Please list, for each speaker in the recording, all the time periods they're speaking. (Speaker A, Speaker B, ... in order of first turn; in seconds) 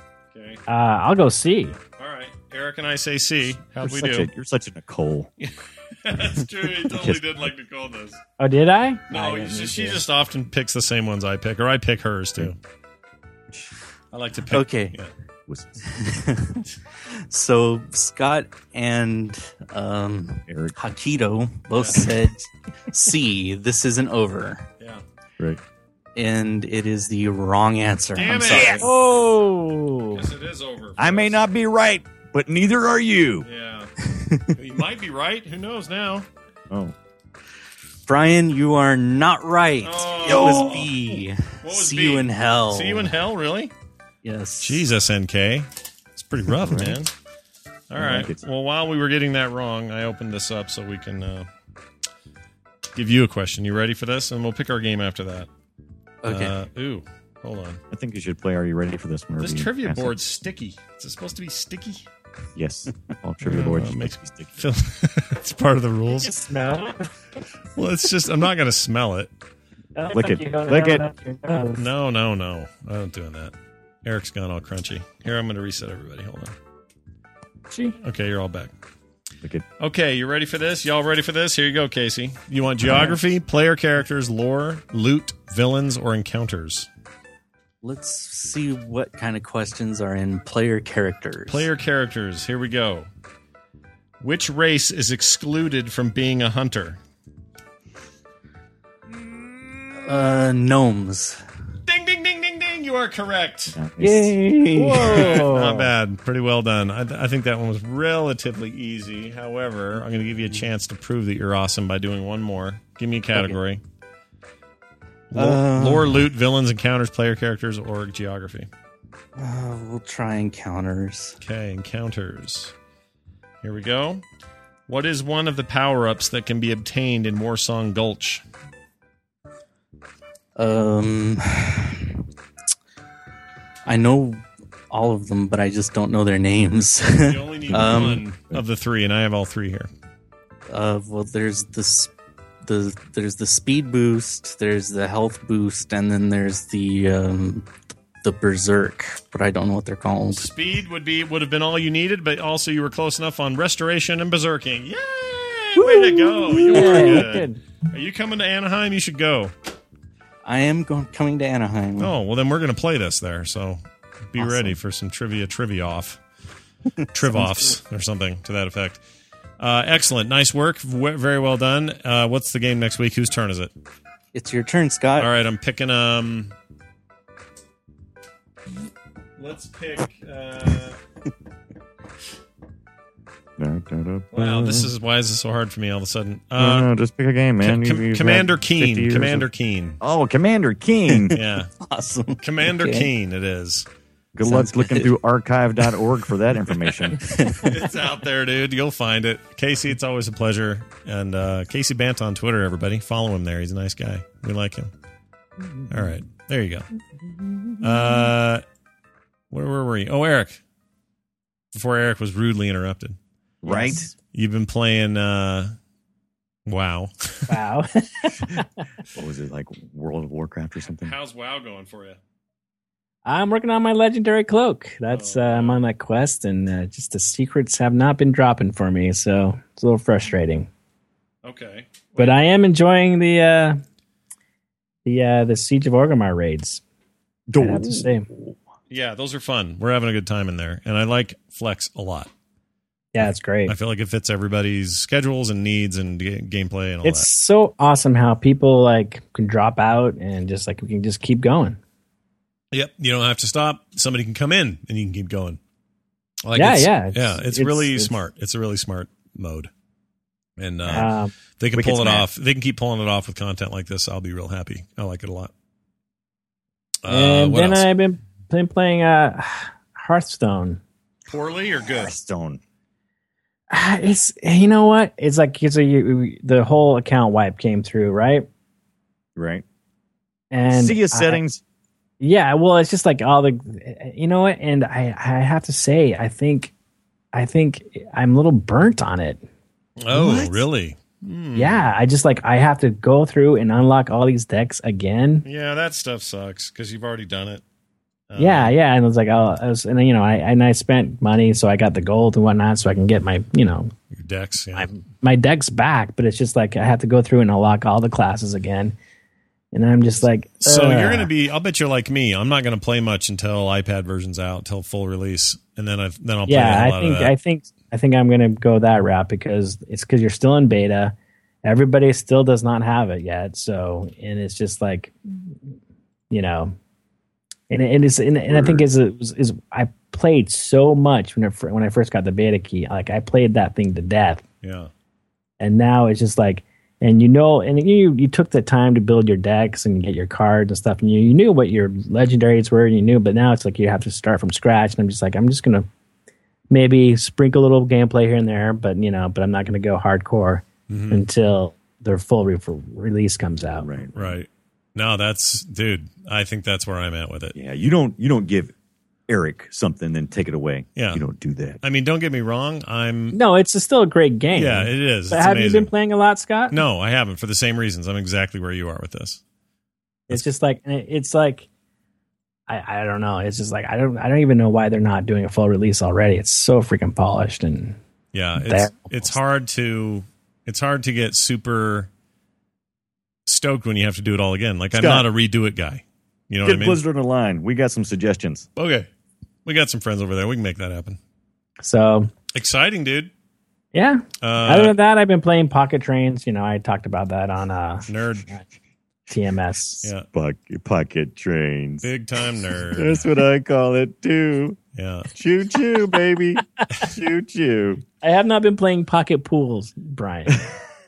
Speaker A: 0.3-0.6, 2.0-4.3, 5.4-8.2, 9.1-12.6, 14.1-15.1, 21.8-22.1, 28.1-28.9, 30.1-31.4, 33.4-33.9, 34.5-36.3, 39.8-40.9, 41.6-43.7, 44.6-47.1, 47.9-51.5, 53.0-55.5, 56.3-57.8, 59.4-62.1, 63.4-66.3, 67.8-69.3, 71.8-73.5, 74.0-76.5, 78.0-78.7, 79.8-86.9, 91.5-93.1, 94.2-97.0, 101.9-103.8, 105.0-113.8, 115.3-118.7, 121.4-122.7, 123.6-124.2, 124.9-128.4, 137.2-139.9, 150.3-159.5, 162.0-163.8, 164.3-166.2, 167.1-169.0, 169.6-173.7, 175.2-176.5, 179.4-181.0, 184.3-186.9, 187.6-190.0, 191.3-191.7, 192.4-193.9, 197.6-204.9, 205.9-206.9, 207.8-208.6, 209.5-210.6, 211.7-213.2, 214.3-215.7, 216.7-217.5, 221.0-222.2, 225.1-225.8, 231.4-232.4, 238.9-242.3, 243.2-247.3, 252.7-255.6, 256.4-259.7, 260.6-265.5, 267.0-267.9, 271.3-272.1, 290.0-291.8, 295.4-297.6, 298.3-298.7, 304.1-304.9, 310.6-317.3, 334.6-334.9, 350.9-351.2, 354.1-357.6, 361.0-361.2, 361.8-363.4, 364.5-365.9, 366.7-369.4, 378.3-382.1, 383.5-387.0, 388.8-389.1, 389.6-391.2, 392.5-393.3, 394.4-394.9, 398.1-398.5, 400.0-400.3, 402.0-403.3, 404.9-405.3
Speaker B: 0.7-1.8, 8.4-10.0, 28.8-30.2, 66.1-67.1, 70.0-71.8, 104.1-105.9, 155.8-157.6, 213.7-214.0, 217.5-218.7, 223.2-230.7, 232.2-233.8, 235.1-236.8, 237.6-238.3, 243.1-243.7, 247.0-251.8, 256.6-258.2, 260.9-261.3, 267.1-270.8, 273.7-278.5, 280.5-281.4, 282.2-286.7, 287.3-289.4, 290.1-290.6, 291.6-295.4, 298.4-303.9, 304.8-308.9, 309.7-311.3, 316.5-325.6, 326.3-326.8, 327.7-334.4, 335.6-345.9, 346.7-353.9, 363.3-366.8, 370.3-371.7, 372.7-378.0, 378.6-379.4, 391.8-392.3, 393.9-398.6, 399.3-400.1, 408.2-410.6
Speaker C: 3.8-5.3, 15.5-15.8, 20.5-20.8, 28.5-28.8, 31.0-33.5, 36.7-37.0, 40.3-40.9, 46.6-47.0, 48.0-48.4, 57.9-60.1, 62.5-64.5, 70.1-71.0, 103.7-104.4, 137.7-138.6, 183.6-184.9, 186.6-189.5, 190.0-191.4, 194.3-197.2, 213.6-214.1, 219.2-221.1, 237.5-238.6, 260.9-261.1, 261.8-262.2, 271.9-272.6, 279.4-279.6, 280.7-281.6, 328.5-328.9, 353.8-354.4, 357.6-358.7, 359.3-361.8, 384.9-385.2, 386.6-388.7, 400.3-402.1, 402.9-404.8, 405.4-408.0
Speaker D: 14.5-15.0, 15.9-16.7, 17.3-24.7, 26.1-28.9, 34.0-34.5, 38.1-43.1, 44.2-44.8, 56.2-56.5, 87.8-91.7, 100.0-101.4, 104.0-105.3, 115.3-116.2, 119.4-121.4, 130.6-132.2, 133.8-138.2, 140.7-142.1, 142.6-147.7, 148.2-150.5, 160.4-162.1, 164.4-164.8, 167.3-167.7, 174.3-175.3, 191.1-193.1, 194.4-195.1, 197.1-197.8